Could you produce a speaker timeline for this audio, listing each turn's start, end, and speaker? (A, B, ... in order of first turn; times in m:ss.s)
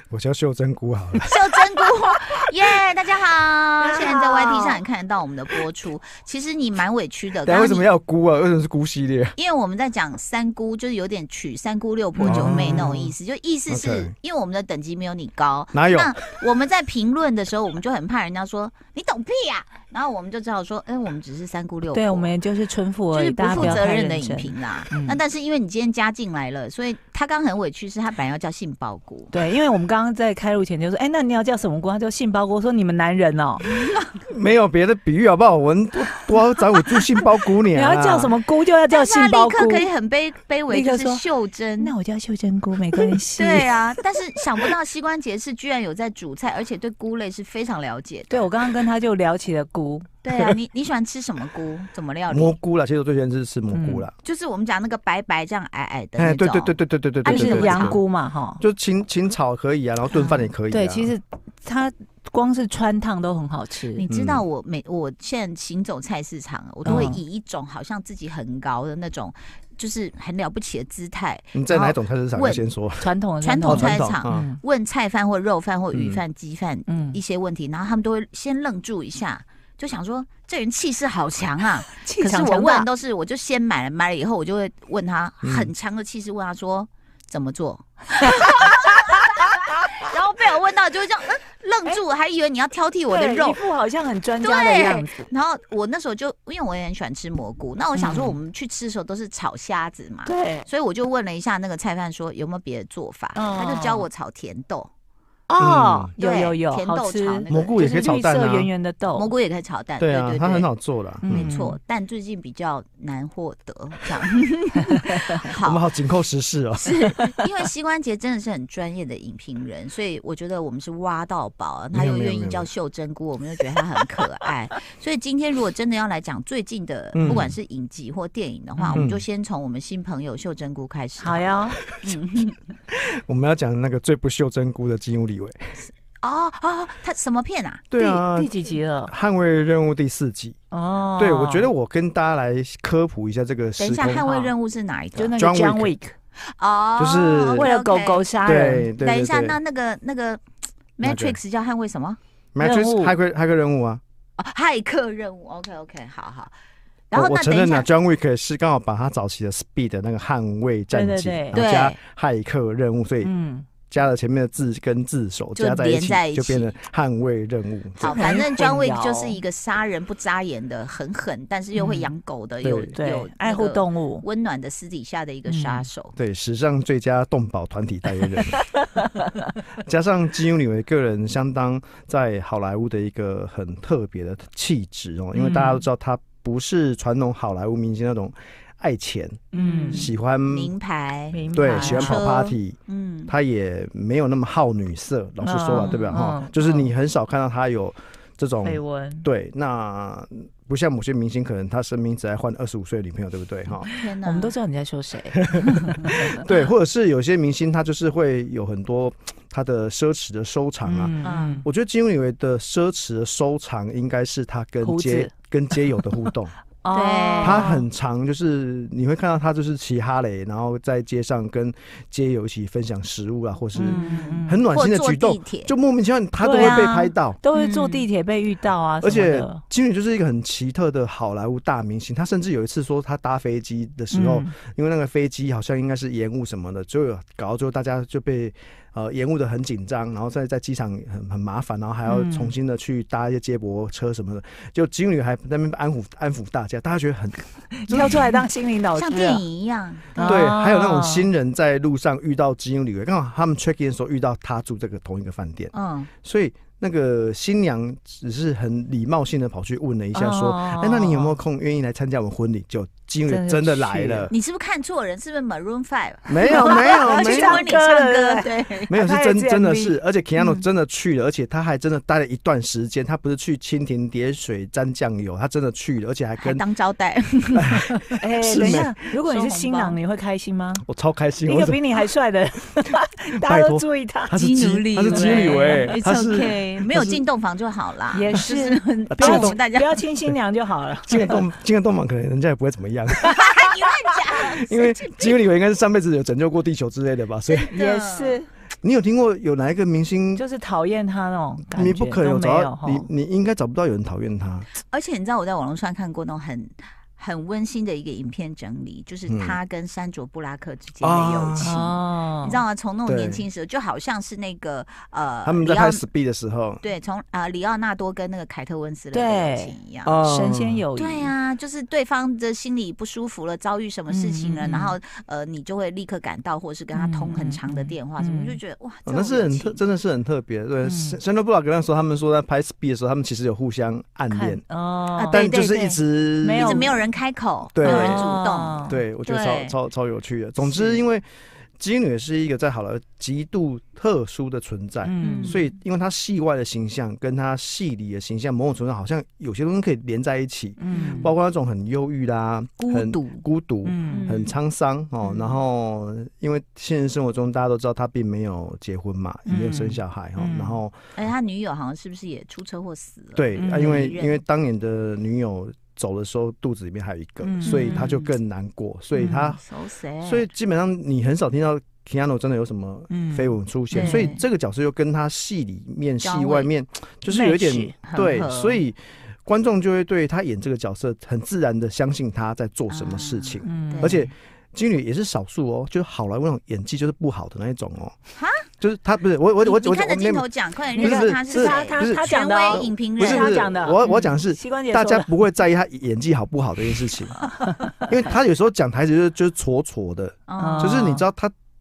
0:00.1-0:01.6 A
0:01.3-0:07.9 B
0:03.8-0:04.8 C
0:07.4-0:09.4 A
0:09.4-0:22.4 B
0:12.2-0:12.9 C
0:12.2-0:13.1 A
0:13.7-0:14.2 A
0:15.7-0:16.1 A
0:21.9-0:25.2 C
0:23.1-0:29.3 B
0:29.3-0:33.6 C
0:33.6-0:34.1 B
0:34.3-0:38.3 A
0:37.7-0:39.9 C
0:38.9-0:42.0 B
0:40.7-0:41.2 C
0:41.8-0:44.0 C
0:43.0-0:48.5 B
0:48.3-0:50.6 C
0:50.2-0:52.6 B
0:52.3-0:54.1 A
0:53.7-0:54.1 C
0:54.2-0:58.0 B
0:56.2-0:58.0 A
0:57.3-0:58.6 C
0:58.6-1:01.1 A
1:00.7-1:04.1 C
1:03.9-1:12.7 B
1:04.1-1:04.4 A
1:06.8-1:07.2 A
1:06.8-1:07.2 C
1:11.5-1:13.1 A
1:13.0-1:14.6 C
1:13.4-1:33.6 B
1:13.7-1:14.5 A
1:15.9-1:16.2 A
1:16.9-1:17.2 C
1:21.9-1:22.9 C
1:25.4-1:25.7 A
1:33.1-1:35.3 C
1:34.4-1:44.9 B
1:38.0-1:38.4 C
1:40.3-1:40.7 C
1:43.4-1:44.1 C
1:45.5-1:49.3 C
1:45.6-1:46.1 A
1:46.2-1:47.8 B
1:47.5-1:48.7 A
1:49.1-1:50.7 B
1:50.0-1:51.5 A
1:51.2-1:51.8 C
1:51.3-1:55.9 B
1:55.6-1:57.3 A
1:56.8-2:12.7 B
2:01.9-2:02.7 A
2:07.1-2:07.6 A
2:08.8-2:09.0 C
2:08.9-2:09.2 A
2:11.2-2:11.8 C
2:12.9-2:15.8 A
2:15.8-2:17.8 B
2:17.9-2:18.5 A
2:18.0-2:19.1 C
2:19.0-2:20.6 A
2:20.7-2:21.7 C
2:21.2-2:24.5 A
2:23.8-2:25.4 B
2:25.2-2:26.1 C
2:25.4-2:25.9 A
2:26.4-2:28.3 B
2:27.0-2:27.7 A
2:27.5-2:28.9 C
2:28.4-2:29.6 A
2:29.0-2:30.4 B
2:31.0-2:32.2 B
2:31.0-2:31.4 A
2:32.6-2:34.0 A
2:32.6-2:33.2 C
2:34.4-2:36.5 B
2:37.1-2:37.9 B
2:37.1-2:43.3 A
2:40.9-2:41.6 C
2:41.5-2:42.0 B
2:43.2-2:43.7 C
2:43.9-2:48.2 A
2:45.6-2:46.8 B
2:48.0-2:56.2 B
2:48.0-2:49.4 C
2:51.7-2:52.1 C
2:52.6-2:53.0 A
2:52.9-2:54.2 C
2:55.5-2:55.9 C
2:56.2-2:58.6 A
2:59.8-3:10.7 A
3:05.3-3:05.8 C
3:09.5-3:10.1 C
3:09.6-3:13.3 B
3:11.3-3:12.2 C
3:11.5-3:23.9 A
3:15.4-3:16.9 C
3:18.6-3:19.3 C
3:23.8-3:26.4 C
3:23.9-3:24.6 B
3:26.3-3:36.6 A
3:30.8-3:31.6 C
3:31.2-3:31.6 B
3:34.8-3:35.3 C
3:36.8-3:37.9 C
3:36.9-3:37.6 B
3:37.4-3:47.4 A
3:43.8-3:44.6 C
3:43.8-3:45.7 B
3:46.4-3:49.6 C
3:47.5-3:48.1 B
3:49.0-4:08.4 A
3:54.1-3:54.5 C
4:02.1-4:02.6 C
4:07.8-4:09.4 C
4:09.0-4:10.4 B
4:10.2-4:11.3 C
4:10.2-4:15.7 A
4:15.7-4:16.1 B
4:16.2-4:24.4 A
4:20.1-4:21.4 C
4:23.3-4:24.3 C
4:24.3-4:28.9 B
4:26.3-4:27.6 A
4:26.5-4:30.6 C
4:28.9-4:36.6 A
4:36.4-4:37.8 B
4:37.6-4:38.9 A
4:38.2-4:40.8 C
4:38.6-4:40.0 B
4:40.8-4:41.8 A
4:41.4-4:46.0 C
4:43.4-4:47.2 A
4:44.4-4:50.0 B
4:48.1-4:51.4 C
4:49.1-4:49.6 A
4:51.1-4:53.4 A
4:53.2-4:55.4 B
4:54.4-4:57.7 A
4:57.5-4:58.4 B
4:57.7-4:58.5 C
4:58.8-5:00.4 A
5:00.4-5:03.1 C
5:01.7-5:04.7 A
5:04.8-5:16.0 B
5:09.3-5:09.6 A
5:11.0-5:11.8 A
5:11.6-5:12.6 C
5:13.1-5:13.4 A
5:15.4-5:16.8 A
5:16.8-5:20.2 B
5:19.1-5:21.3 C
5:20.0-5:20.8 A
5:21.0-5:29.8 B
5:24.1-5:25.0 C
5:26.9-5:28.6 C
5:29.1-5:34.6 A
5:30.8-5:31.2 C
5:34.3-5:35.6 C
5:35.2-5:36.0 B
5:35.3-5:36.9 A
5:36.4-5:37.1 C
5:36.5-5:39.8 B
5:37.7-5:38.3 A
5:37.8-5:39.0 C
5:38.9-5:41.2 A
5:40.7-5:41.0 B
5:41.8-6:01.0 A
5:45.0-5:45.6 C
5:45.2-5:45.8 B
5:50.8-5:51.3 C
5:51.0-5:51.3 B
5:52.8-5:53.4 B
5:53.8-5:54.3 C
5:54.1-5:54.6 B
5:55.2-5:55.6 B
5:59.5-6:00.8 C
6:01.2-6:04.4 B
6:03.4-6:09.6 A
6:03.6-6:04.1 C
6:07.4-6:08.2 C
6:07.6-6:08.3 B
6:09.2-6:09.6 C
6:09.5-6:10.5 B
6:10.2-6:28.2 A
6:13.1-6:14.3 C
6:13.9-6:14.4 B
6:16.2-6:16.7 B
6:17.3-6:18.0 C
6:18.0-6:18.8 B
6:22.9-6:24.2 B
6:23.6-6:24.3 C
6:28.4-6:28.7 B
6:28.8-6:37.5 A
6:29.6-6:34.2 B
6:31.0-6:35.3 C
6:38.1-6:41.5 A
6:40.5-6:41.1 B
6:40.6-6:41.2 C